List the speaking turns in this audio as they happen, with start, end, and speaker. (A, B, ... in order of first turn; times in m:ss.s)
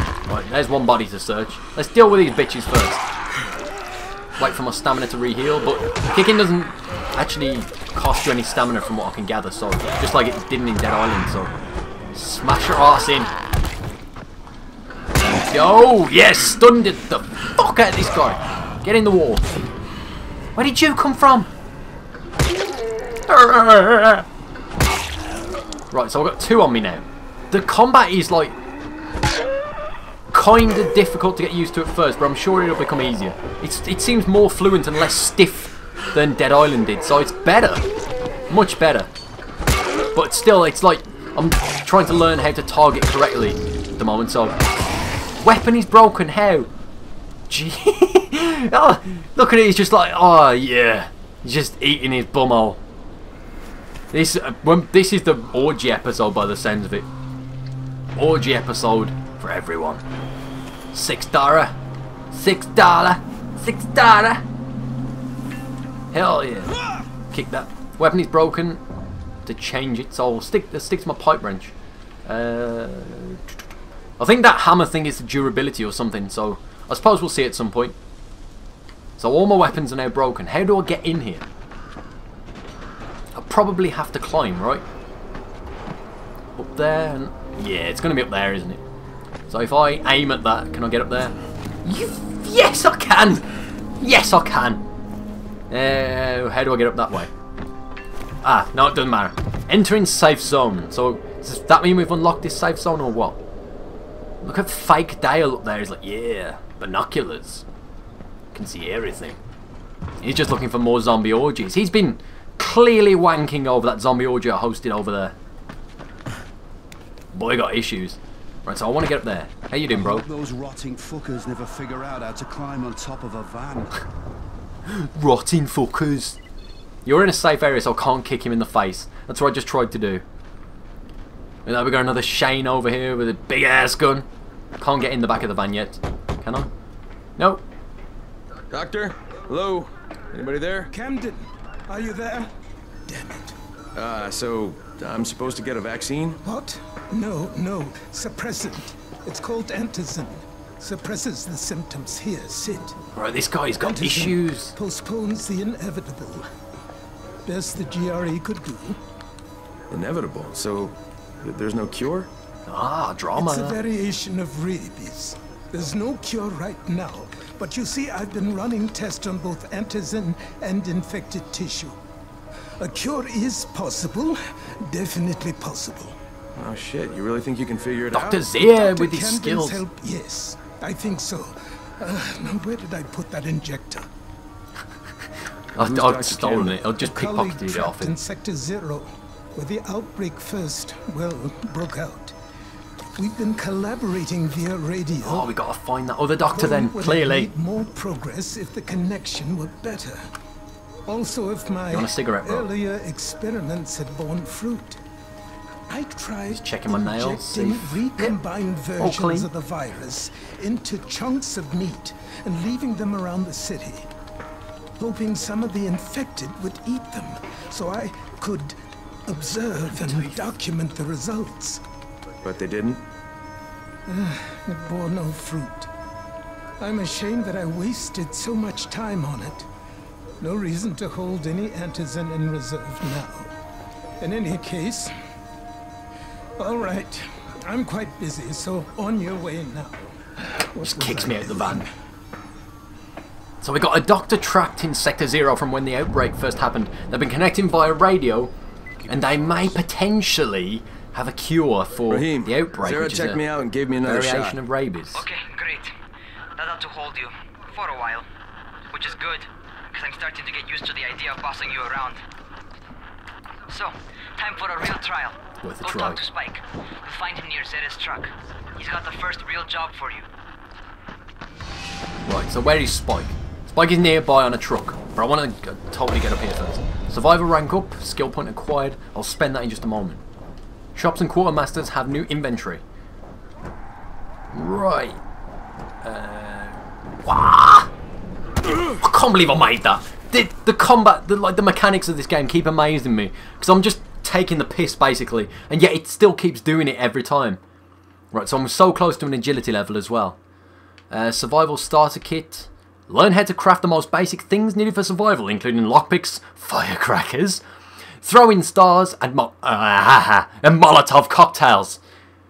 0:00.3-0:03.0 A
0:04.4-0:11.5 A
0:12.1-0:13.3 A
0:15.5-0:19.6 A
0:20.6-0:21.5 A
0:23.3-0:24.2 A
0:25.9-0:28.6 A
0:30.3-0:37.8 A
0:38.5-0:39.1 A
0:40.2-0:44.6 A
0:45.4-0:46.7 A
0:47.5-0:52.8 A
0:54.1-0:57.1 A
0:58.2-1:00.0 A
1:00.9-1:01.8 A
1:02.3-1:04.4 A
1:06.1-1:06.7 A
1:07.3-1:08.8 A
1:09.5-1:11.7 A
1:12.2-1:13.4 A
1:14.2-1:18.0 A
1:19.2-1:21.5 A
1:23.4-1:24.8 A
1:26.6-1:28.8 A
1:29.5-1:33.5 A
1:34.0-1:34.8 A
1:35.7-1:37.3 A
1:38.4-1:43.4 A
1:44.4-1:47.6 A
1:48.5-1:49.4 A
1:50.2-1:55.4 A
1:57.3-2:00.3 A
1:59.9-2:03.9 B
2:04.9-2:06.4 A
2:07.0-2:10.2 A
2:11.7-2:14.2 A
2:14.8-2:16.7 A
2:17.4-2:17.6 A
2:18.7-2:20.9 C
2:20.9-2:22.5 D
2:23.1-2:23.6 D
2:24.0-2:26.4 C
2:26.4-2:33.0 D
2:33.1-2:34.8 A
2:33.8-2:36.5 D
2:37.5-2:39.0 D
2:39.9-2:42.3 C
2:42.7-2:43.8 A
2:43.4-2:52.0 D
2:52.8-2:56.2 D
2:56.6-2:58.4 C
2:58.1-2:59.8 A
2:58.5-3:04.1 D
3:05.8-3:08.2 A
3:05.8-3:06.8 C
3:07.0-3:12.3 D
3:13.2-3:15.5 D
3:15.2-3:17.5 A
3:16.5-3:20.2 D
3:21.1-3:25.0 D
3:21.9-3:22.7 A
3:25.9-3:34.1 D
3:26.5-3:28.4 A
3:29.0-3:29.5 A
3:35.0-3:38.8 D
3:39.2-3:41.8 D
3:39.9-3:40.5 A
3:42.4-3:43.0 C
3:44.1-3:45.9 D
3:46.8-3:49.7 D
3:50.4-3:53.5 D
3:54.2-3:55.1 D
3:56.6-4:01.9 D
4:00.8-4:01.9 A
4:03.6-4:08.5 A
4:09.1-4:13.4 A
4:09.2-4:09.6 B
4:12.1-4:14.6 C
4:14.0-4:15.2 A
4:15.1-4:15.9 E
4:16.6-4:18.2 E
4:18.9-4:22.2 E
4:23.7-4:30.2 E
4:25.6-4:26.2 A
4:32.3-4:40.2 A
4:41.0-4:42.8 A
4:44.5-4:45.2 A
4:46.0-4:47.9 A
4:48.7-4:57.6 A
4:58.3-5:00.4 A
5:01.1-5:07.6 A
5:08.2-5:12.0 A